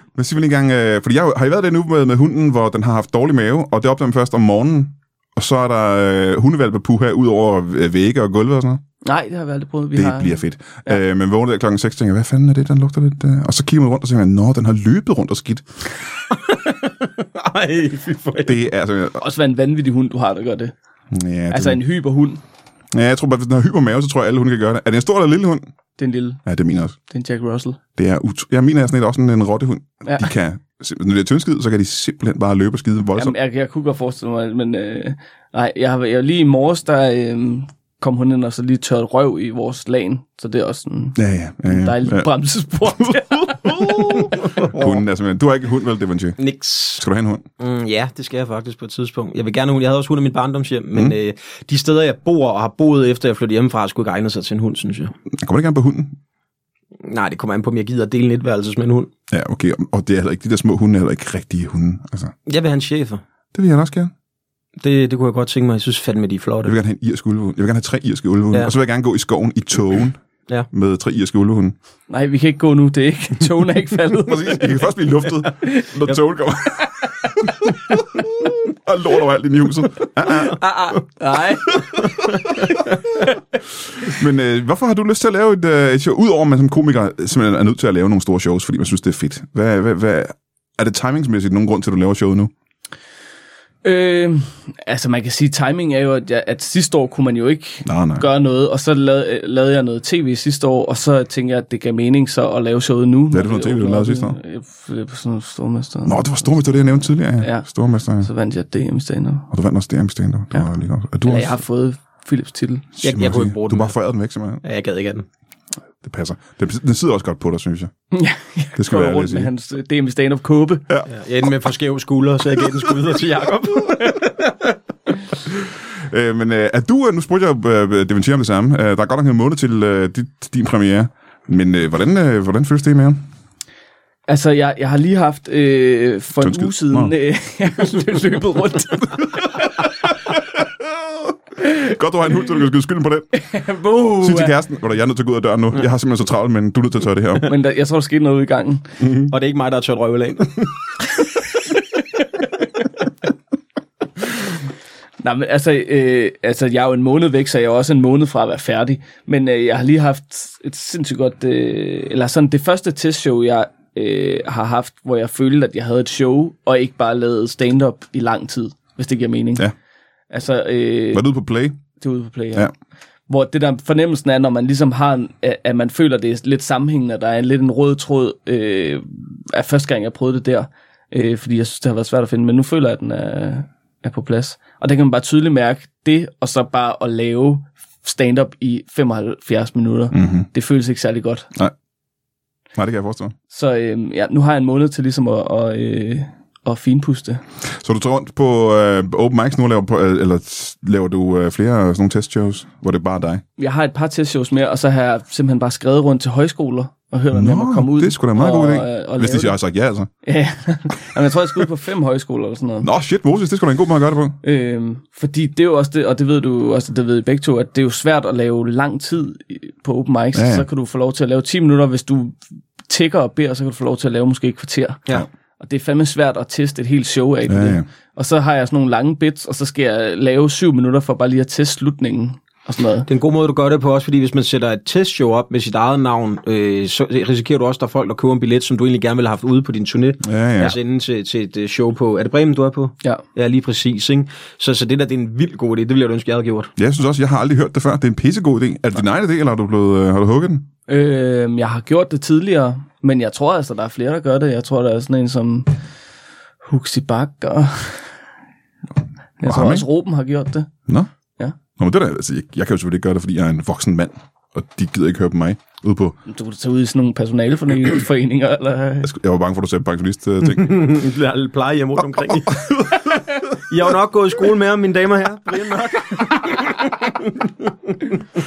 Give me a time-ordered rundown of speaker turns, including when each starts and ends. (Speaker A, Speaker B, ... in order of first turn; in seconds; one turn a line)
Speaker A: 0.1-8.8
Speaker B: 9.0-11.0
Speaker A: 9.9-15.7
Speaker C: 16.3-18.6
Speaker A: 18.4-19.2
Speaker B: 19.2-20.7
Speaker A: 21.1-21.8
Speaker B: 21.5-22.4
Speaker A: 22.9-25.7
Speaker B: 26.0-26.4
Speaker A: 26.4-26.9
Speaker B: 27.1-27.8
Speaker A: 28.0-33.3
Speaker B: 33.1-44.4
Speaker A: 41.1-42.3
Speaker A: 43.6-46.4
Speaker C: 46.4-47.0
Speaker A: 47.0-47.4
Speaker C: 47.6-55.1
Speaker A: 55.3-56.2
Speaker C: 57.0-59.1
Speaker A: 59.3-62.3
Speaker C: 62.5-63.2
Speaker A: 63.5-64.1
Speaker C: 64.8-66.8
Speaker A: 66.6-70.2
Speaker A: 70.7-71.7
Speaker B: 72.1-74.8
Speaker A: 74.2-80.6
Speaker B: 75.6-75.9
Speaker B: 76.8-77.1
Speaker C: 80.5-81.0
Speaker B: 81.0-82.2
Speaker A: 82.2-82.9
Speaker A: 84.0-92.5
Speaker B: 93.8-106.5
Speaker A: 97.8-98.2
Speaker A: 103.3-104.4
Speaker A: 106.0-108.3
Speaker B: 107.4-107.7
Speaker B: 108.2-109.5
Speaker A: 109.5-111.6
Speaker B: 111.2-112.9
Speaker A: 113.0-114.6
Speaker C: 113.0-113.9
Speaker C: 114.6-115.2
Speaker A: 116.0-117.9
Speaker B: 118.1-120.8
Speaker A: 118.8-119.5
Speaker C: 121.1-124.7
Speaker A: 126.1-133.2
Speaker B: 134.3-139.8
Speaker A: 136.4-137.1
Speaker A: 139.2-143.3
Speaker B: 143.3-144.6
Speaker A: 144.2-147.5
Speaker B: 147.4-148.9
Speaker A: 149.0-149.3
Speaker C: 149.3-150.9
Speaker B: 155.2-169.7
Speaker B: 170.3-171.2
Speaker A: 171.1-171.8
Speaker B: 172.0-172.7
Speaker B: 173.3-191.5
Speaker A: 190.1-190.5
Speaker A: 192.8-193.3
Speaker B: 193.5-197.4
Speaker A: 197.8-203.4
Speaker B: 203.6-209.6
Speaker A: 207.3-210.1
Speaker B: 210.2-212.9
Speaker A: 212.8-214.4
Speaker B: 214.4-225.0
Speaker A: 220.3-220.7
Speaker B: 225.6-233.1
Speaker A: 227.5-227.8
Speaker C: 233.1-246.7
Speaker A: 240.2-240.8
Speaker A: 246.8-250.7
Speaker B: 250.9-255.7
Speaker B: 256.6-258.1
Speaker B: 259.4-260.7
Speaker A: 259.4-259.9
Speaker A: 261.8-266.1
Speaker B: 266.3-269.1
Speaker A: 269.0-270.9
Speaker C: 270.5-278.1